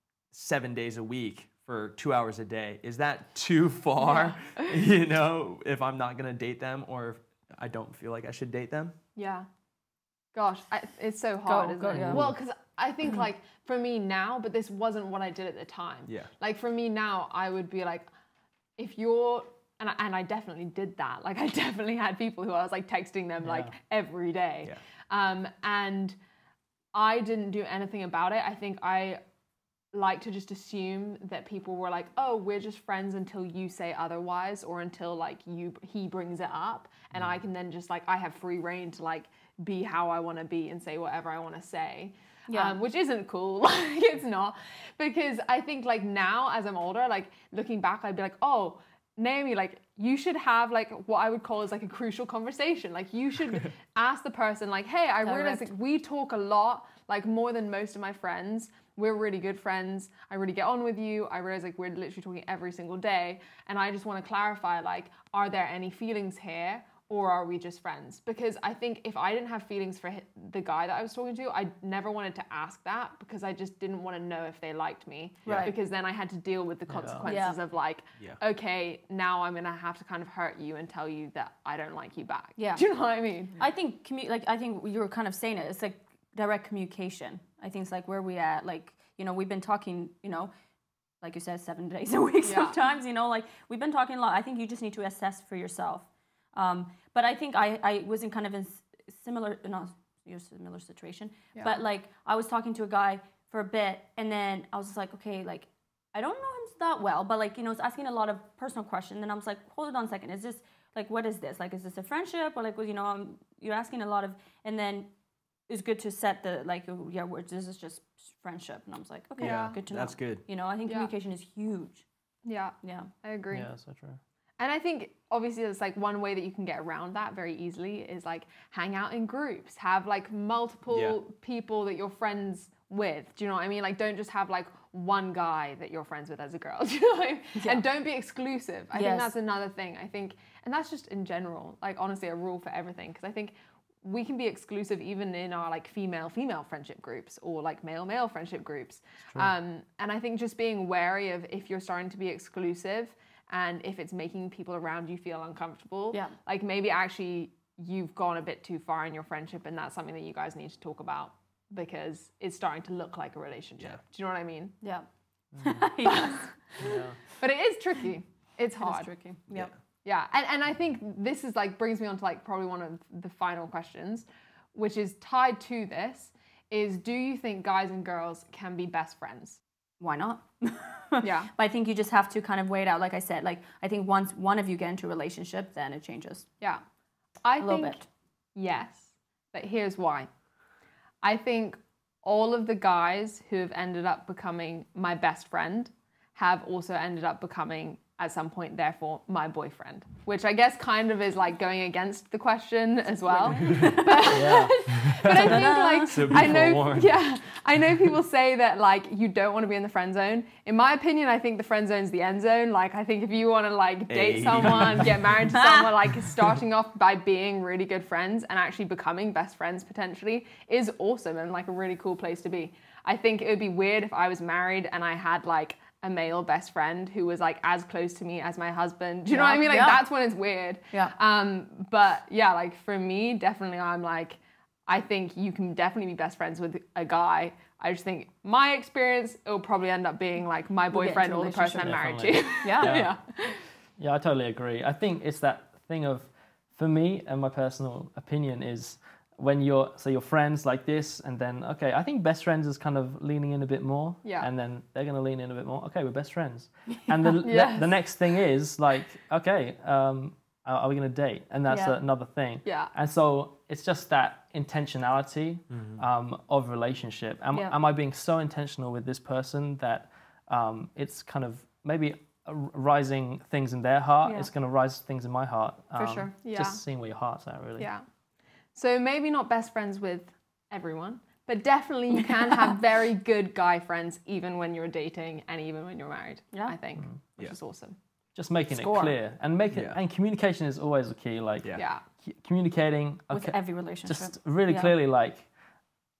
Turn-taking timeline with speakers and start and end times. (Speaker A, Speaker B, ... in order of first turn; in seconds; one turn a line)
Speaker A: 0.3-9.0
Speaker B: 4.1-4.5
Speaker B: 9.2-9.5
Speaker B: 10.3-18.1
Speaker C: 11.4-12.3
Speaker D: 11.9-12.3
Speaker A: 12.1-12.3
Speaker B: 18.8-26.2
Speaker D: 23.4-23.7
Speaker B: 26.9-29.2
Speaker B: 29.9-83.6
Speaker C: 42.5-42.8
Speaker C: 55.2-55.7
Speaker A: 75.4-75.7
Speaker C: 75.5-75.7
Speaker D: 76.9-77.3
Speaker C: 77.3-77.6
Speaker C: 82.6-82.8
Speaker C: 83.6-90.5
Speaker C: 91.2-115.1
Speaker B: 92.4-92.8
Speaker C: 115.7-122.0
Speaker B: 119.4-119.8
Speaker A: 119.4-120.4
Speaker B: 120.9-121.1
Speaker B: 122.5-123.7
Speaker C: 122.8-123.1
Speaker D: 123.5-124.2
Speaker B: 124.6-164.8
Speaker A: 130.9-131.2
Speaker C: 138.9-139.3
Speaker C: 164.8-165.1
Speaker D: 165.6-165.9
Speaker C: 165.6-166.5
Speaker B: 166.1-169.1
Speaker D: 166.8-167.2
Speaker C: 168.8-169.7
Speaker A: 169.5-169.8
Speaker B: 170.0-179.6
Speaker C: 180.0-186.5
Speaker B: 181.2-181.5
Speaker B: 187.4-190.3
Speaker C: 187.6-188.0
Speaker B: 191.2-243.6
Speaker C: 203.3-204.6
Speaker A: 203.6-204.0
Speaker D: 204.3-204.8
Speaker A: 204.9-207.3
Speaker C: 205.3-206.3
Speaker A: 214.1-215.5
Speaker C: 215.6-215.8
Speaker C: 229.3-230.1
Speaker C: 240.9-242.0
Speaker D: 241.8-243.2
Speaker C: 242.6-243.1
Speaker D: 244.0-277.9
Speaker B: 254.2-254.5
Speaker B: 257.4-258.0
Speaker C: 261.7-262.0
Speaker B: 262.6-262.9
Speaker C: 267.5-267.8
Speaker C: 274.2-274.5
Speaker C: 276.0-276.3
Speaker B: 276.4-276.8
Speaker B: 277.8-278.1
Speaker B: 278.8-288.0
Speaker C: 282.3-282.7
Speaker D: 288.4-295.5
Speaker C: 288.7-289.2
Speaker A: 289.7-290.0
Speaker B: 291.8-292.0
Speaker C: 293.3-294.9